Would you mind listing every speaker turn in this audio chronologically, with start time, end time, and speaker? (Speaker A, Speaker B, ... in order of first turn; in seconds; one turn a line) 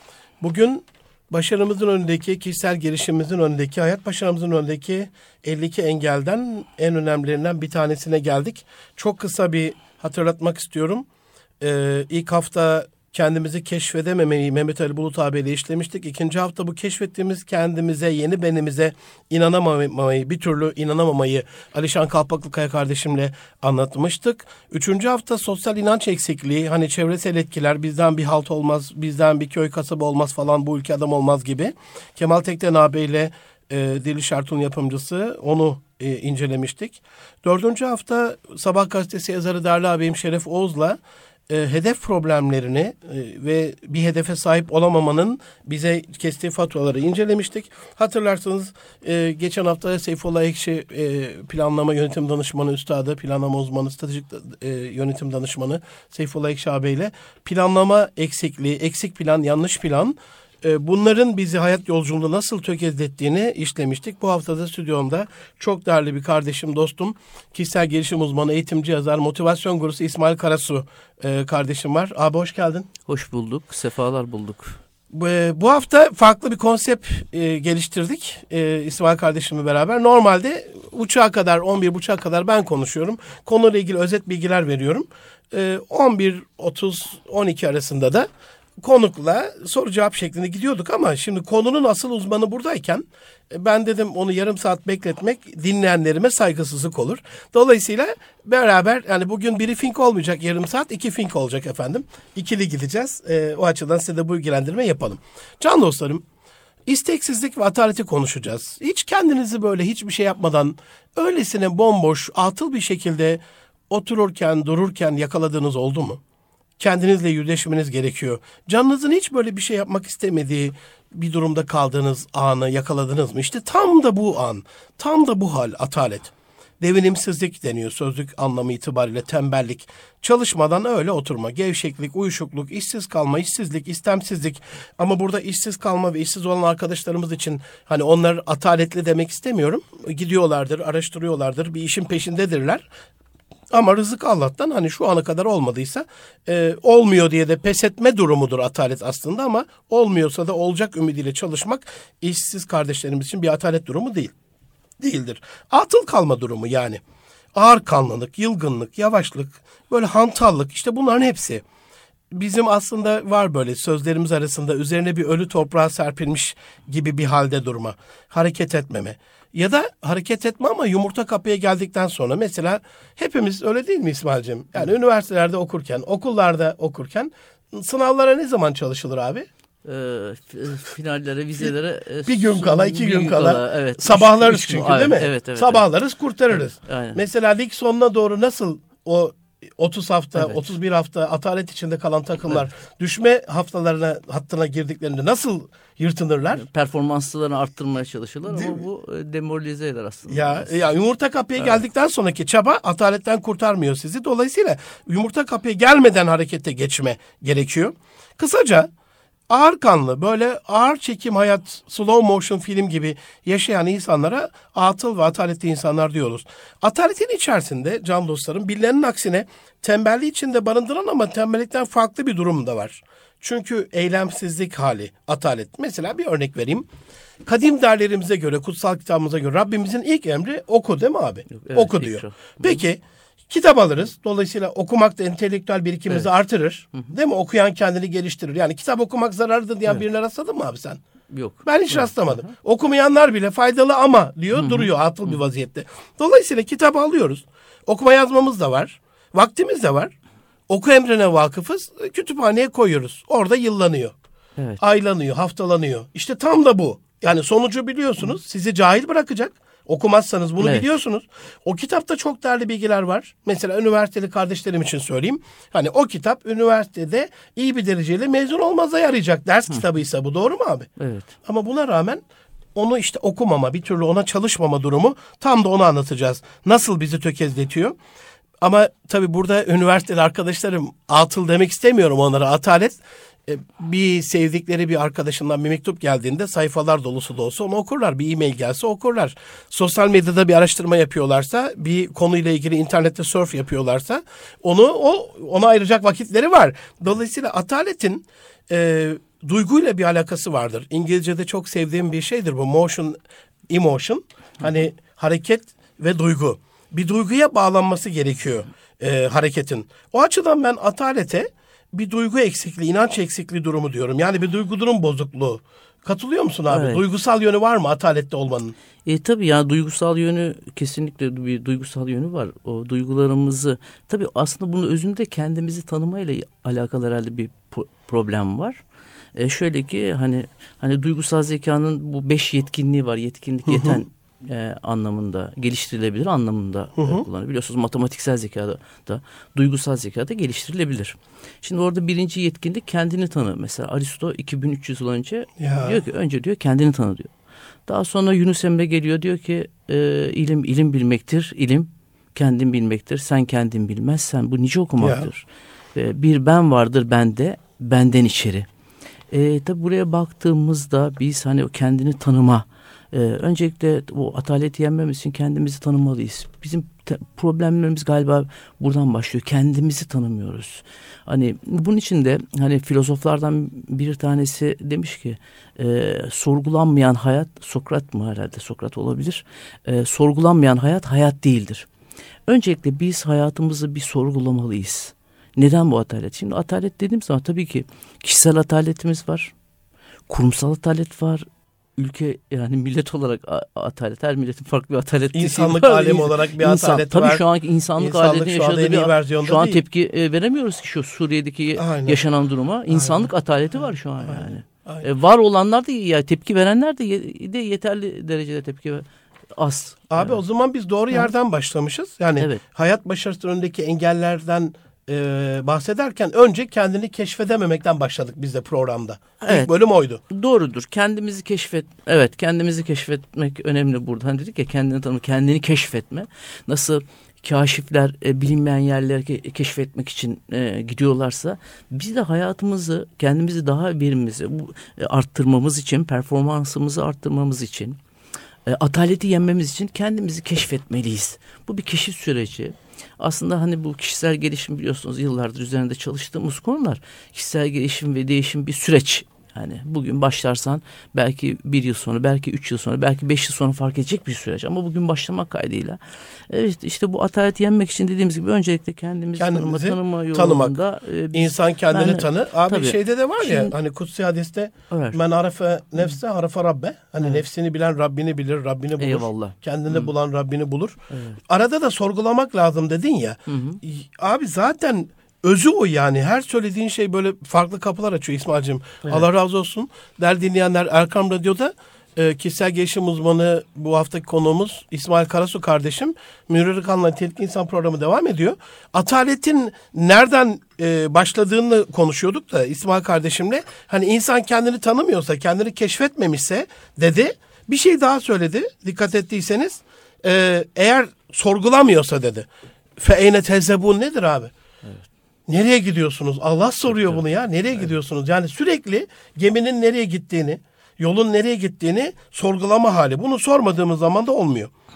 Speaker A: 0.4-11.1
Speaker A: 11.6-72.9
Speaker B: 73.1-74.8
Speaker A: 75.1-88.3
Speaker A: 88.8-106.2
Speaker A: 106.9-116.2
Speaker A: 116.8-142.9
Speaker A: 143.7-154.3
Speaker A: 155.0-157.0
Speaker A: 157.6-161.6
Speaker A: 162.3-179.5
Speaker B: 179.8-185.9
Speaker A: 182.3-196.7
Speaker B: 186.5-187.2
Speaker B: 190.3-190.7
Speaker B: 196.5-200.7
Speaker A: 198.5-198.8
Speaker A: 200.3-208.9
Speaker A: 209.5-226.9
Speaker A: 227.4-241.0
Speaker B: 231.5-232.8
Speaker B: 241.3-242.5
Speaker A: 241.6-250.1
Speaker B: 244.5-245.3
Speaker A: 250.7-254.2
Speaker A: 254.8-270.9
Speaker B: 260.6-260.9
Speaker B: 271.0-271.3
Speaker A: 271.4-272.2
Speaker A: 272.8-278.0
Speaker A: 278.6-303.2
Speaker A: 303.7-318.8
Speaker B: 316.7-317.0
Speaker B: 319.1-328.8
Speaker B: 329.4-347.3
Speaker A: 333.7-334.0
Speaker A: 337.0-337.2
Speaker A: 345.6-346.0
Speaker B: 347.9-358.7
Speaker A: 355.0-355.3
Speaker B: 359.3-381.9
Speaker B: 382.5-389.5
Speaker B: 390.3-391.5
Speaker B: 392.0-410.4
Speaker A: 395.3-397.4
Speaker A: 398.0-399.8
Speaker A: 401.8-402.2
Speaker A: 402.9-403.3
Speaker A: 404.2-405.1
Speaker A: 410.1-420.2
Speaker B: 419.4-419.7
Speaker B: 420.3-438.0
Speaker B: 438.7-463.7
Speaker A: 459.4-460.8
Speaker A: 461.3-502.5
Speaker B: 464.9-465.2
Speaker B: 469.0-470.1
Speaker B: 471.1-471.4
Speaker B: 473.5-473.8
Speaker A: 503.0-504.5
Speaker A: 505.5-514.7
Speaker B: 506.9-507.2